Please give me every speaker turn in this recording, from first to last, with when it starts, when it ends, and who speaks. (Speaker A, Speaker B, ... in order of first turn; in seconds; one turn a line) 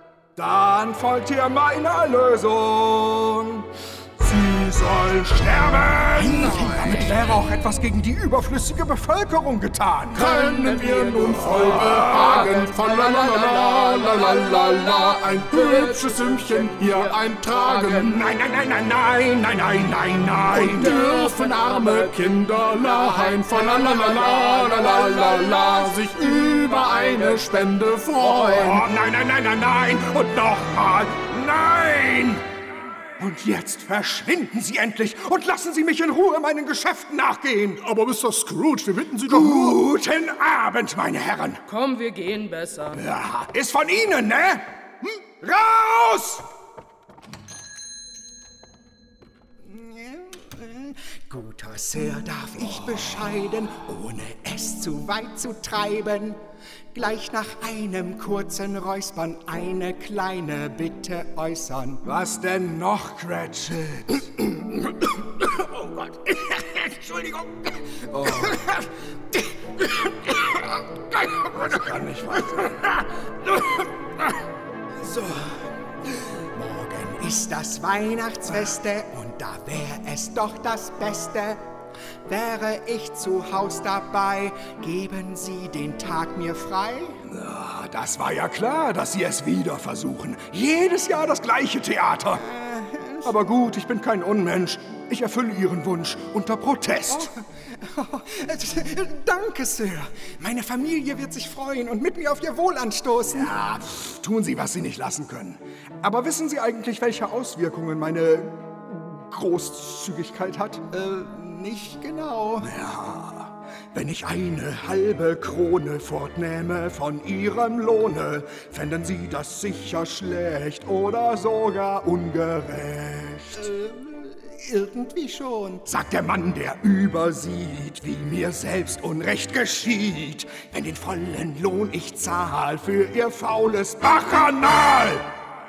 Speaker A: 0.3-10.2
Speaker B: 6.2-7.3
Speaker C: 10.1-18.1
Speaker B: 10.2-18.1
Speaker A: 11.8-12.3
Speaker A: 18.0-21.0
Speaker C: 20.5-28.8
Speaker B: 20.7-28.7
Speaker A: 28.5-32.4
Speaker A: 33.2-37.8
Speaker C: 37.8-39.8
Speaker A: 39.2-41.6
Speaker B: 41.7-43.0
Speaker A: 42.9-44.6
Speaker A: 45.4-46.5
Speaker D: 49.6-56.4
Speaker A: 52.8-53.3
Speaker D: 56.9-62.0
Speaker A: 62.0-68.9
Speaker A: 71.2-73.8
Speaker A: 75.1-75.5
Speaker D: 76.6-81.6
Speaker D: 82.3-87.2
Speaker A: 87.3-92.4
Speaker D: 92.4-93.3
Speaker A: 93.2-97.3
Speaker D: 97.1-103.5
Speaker A: 103.3-110.9
Speaker D: 110.9-112.7
Speaker A: 112.6-123.7
Speaker D: 123.6-125.8
Speaker A: 125.8-135.3